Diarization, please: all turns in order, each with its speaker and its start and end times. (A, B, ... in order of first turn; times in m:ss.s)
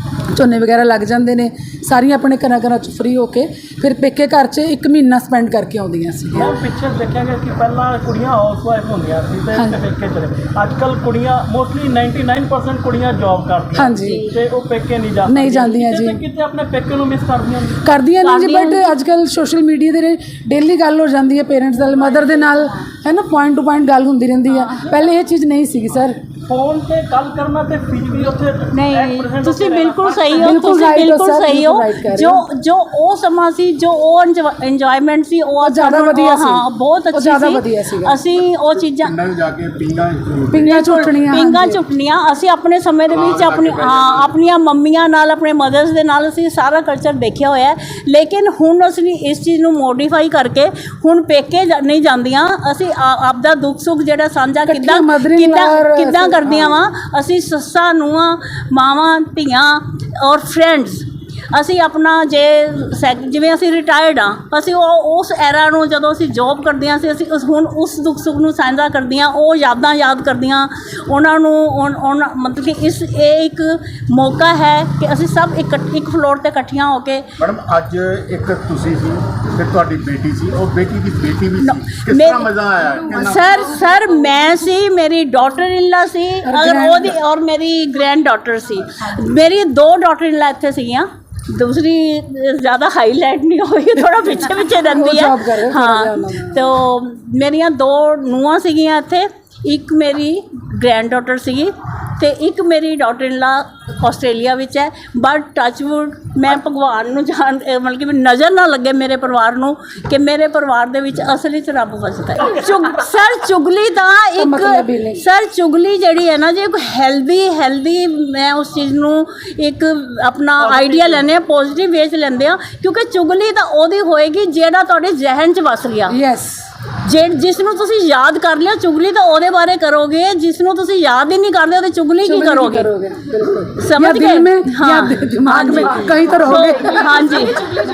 0:00.3-0:06.5 A
0:06.3-0:17.8 B
0:13.8-0:14.2 A
0:15.3-0:16.2 A
0:17.8-0:26.1 A
0:18.2-0:19.0 C
0:21.9-0:22.5 B
0:26.4-0:30.7 B
0:28.7-0:39.1 C
0:30.4-0:32.4 A
0:35.6-0:38.2 A
0:38.4-0:41.2 D
0:40.5-0:41.8 A
0:40.6-1:17.2 C
0:43.1-0:44.3 D
0:54.7-0:56.7 A
1:17.4-1:23.8 D
1:21.7-1:22.5 C
1:23.0-2:06.2 C
1:26.4-1:27.0 A
1:34.9-1:36.6 A
1:52.4-1:52.9 B
1:54.4-1:55.2 A
2:00.6-2:01.2 B
2:06.1-2:06.6 A
2:07.0-2:12.9 C
2:12.2-2:17.2 A
2:13.8-2:17.6 C